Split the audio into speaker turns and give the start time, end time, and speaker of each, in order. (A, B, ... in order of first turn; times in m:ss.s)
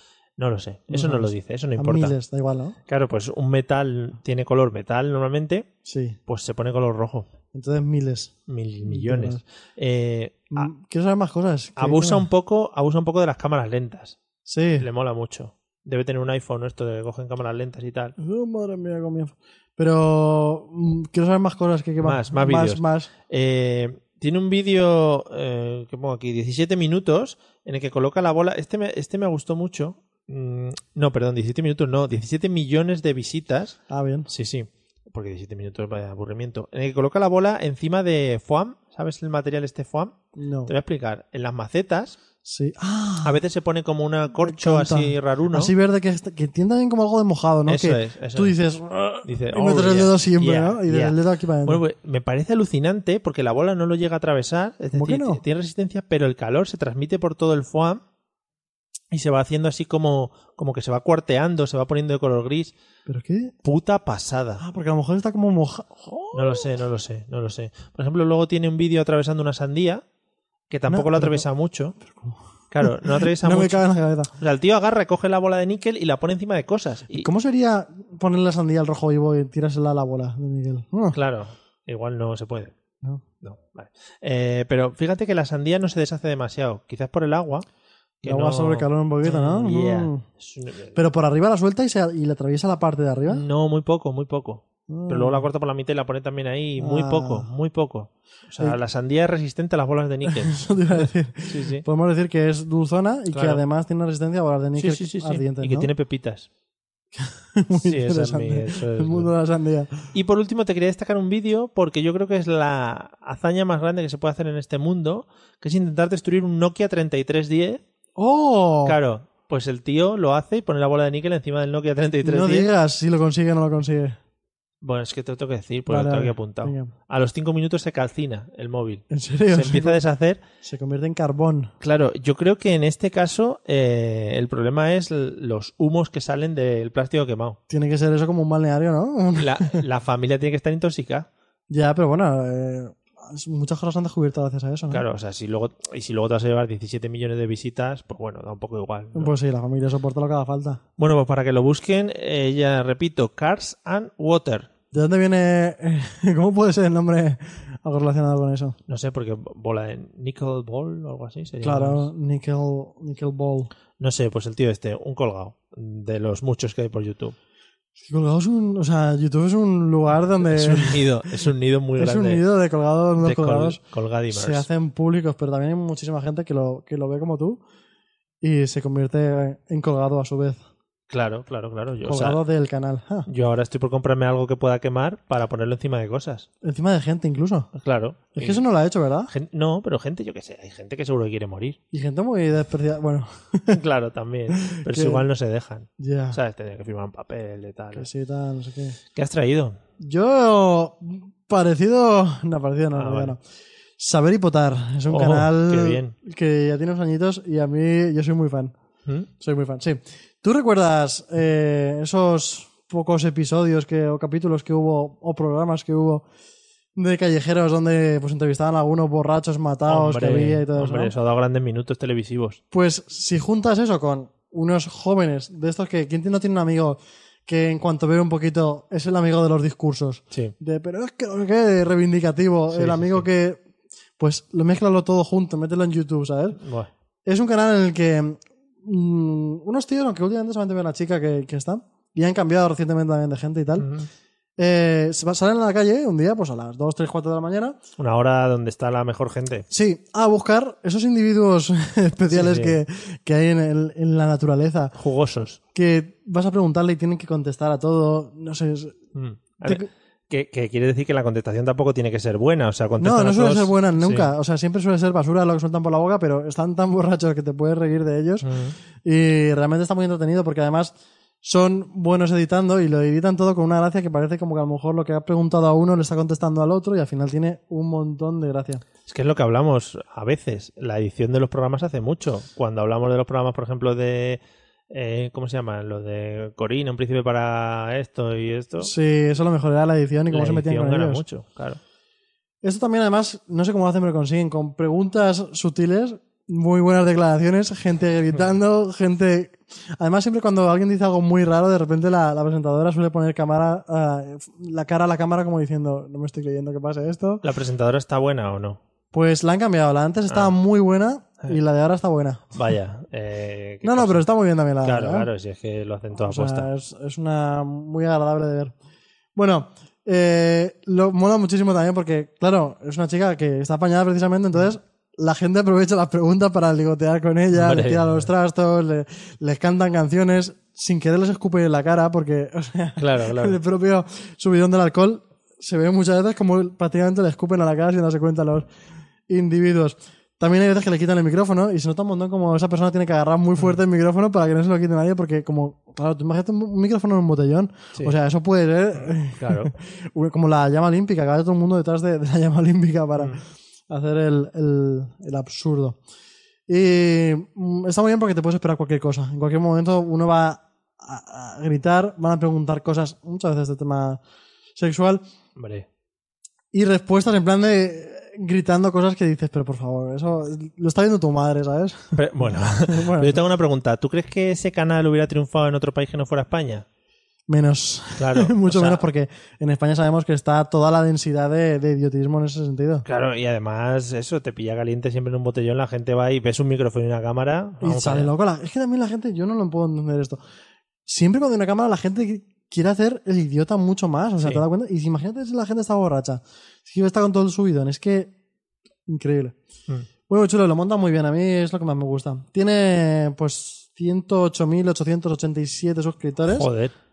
0:00.4-0:02.2 A
0:00.9-0:02.8 B
0:02.9-0:05.7 A
0:05.8-0:06.2 B
0:06.2-0:07.3 A
0:07.5-0:09.4 B
0:08.5-0:10.7 A
0:10.5-0:12.2 B
0:11.8-0:14.2 A
0:14.4-0:14.8 B
0:14.8-0:18.1 A
0:18.2-0:23.1 B
0:22.0-0:42.2 A
0:33.9-0:34.3 B
0:40.4-0:40.7 B
0:42.4-0:43.4 B
0:43.2-0:45.7 A
0:44.4-0:51.8 B
0:47.7-0:48.6 A
0:49.2-0:58.0 A
0:54.9-0:55.4 B
0:59.1-1:02.7 A
1:03.1-1:03.5 B
1:03.6-1:04.6 A
1:04.6-1:06.7 B
1:06.3-1:10.0 A
1:10.7-1:12.0 A
1:10.9-1:11.4 B
1:12.0-1:14.3 B
1:12.7-1:13.8 A
1:14.4-1:17.3 A
1:17.1-1:21.2 B
1:21.1-1:22.7 A
1:23.4-1:27.6 A
1:28.2-1:31.0 A
1:28.2-1:30.2 B
1:30.9-1:33.4 B
1:33.3-1:41.8 A
1:34.9-1:35.5 B
1:36.8-1:37.5 B
1:40.2-1:45.9 B
1:43.3-1:43.6 A
1:44.8-1:46.5 A
1:47.1-1:50.1 B
1:47.8-1:49.3 A
1:50.1-1:57.8 A
1:58.2-1:59.0 B
1:58.8-2:02.7 A
2:02.2-2:04.2 B
2:04.8-2:10.4 A
2:05.9-2:06.9 B
2:09.1-2:10.0 B
2:10.6-2:11.7 B
2:11.8-2:17.6 A
2:17.7-2:19.8 B
2:19.4-2:21.3 A
2:21.7-2:25.0 B
2:24.9-2:29.3 A
2:29.1-2:30.8 B
2:31.0-2:34.7 A
2:34.9-2:38.8 B
2:38.9-2:42.1 A
2:41.6-2:43.7 B
2:44.0-2:47.3 A
2:48.0-2:51.0 B
2:50.4-2:52.4 A
2:52.0-2:57.6 B
2:53.2-2:54.6 A
2:58.4-3:00.6 B
3:01.1-3:02.4 A
3:02.0-3:03.3 B
3:03.3-3:06.5 A
3:06.6-3:07.7 B
3:07.7-3:08.6 A
3:08.3-3:09.3 B
3:09.3-3:11.8 A
3:11.9-3:13.8 B
3:13.7-3:18.1 A
3:14.5-3:15.2 B
3:16.0-3:16.4 B
3:17.9-3:19.0 B
3:19.1-3:19.8 A
3:20.0-3:23.4 B
3:22.9-3:23.3 A
3:24.0-3:28.7 B
3:25.1-3:26.1 A
3:29.4-3:36.2 B
3:37.0-3:41.1 B
3:39.9-3:42.6 A
3:42.7-3:53.6 B
3:52.7-3:53.2 A
3:54.2-3:56.6 B
3:56.6-3:56.9 A
3:57.2-4:03.9 B
4:03.8-4:04.1 A
4:04.6-4:07.8 B
4:08.0-4:09.7 A
4:09.7-4:14.9 B
4:12.3-4:12.8 A
4:14.9-4:15.6 A
4:15.7-4:19.0 B
4:19.1-4:24.3 A
4:23.0-4:28.5 B
4:28.4-4:28.8 A
4:29.0-4:38.8 B
4:39.1-4:48.9 A
4:48.8-4:51.2 B
4:50.3-4:51.8 A
4:52.6-5:07.4 B
5:07.4-5:08.8 A
5:09.1-5:12.6 B
5:12.5-5:14.2 A
5:13.8-5:15.3 B
5:14.8-5:16.7 A
5:16.1-5:18.7 B
5:19.3-5:38.7 B
5:27.5-5:28.3 A
5:33.0-5:33.6 A
5:39.3-5:56.0 B
5:49.0-5:49.7 A
5:56.7-6:04.2 B
6:04.8-6:05.2 B
6:05.6-6:05.8 A
6:06.7-6:13.4 B
6:12.2-6:16.8 A
6:17.5-6:23.0 B
6:18.2-6:19.1 A
6:23.0-6:28.3 A
6:27.8-6:30.4 B
6:31.0-6:38.3 B
6:39.1-6:39.5 B
6:40.3-6:46.7 B
6:46.5-6:46.9 A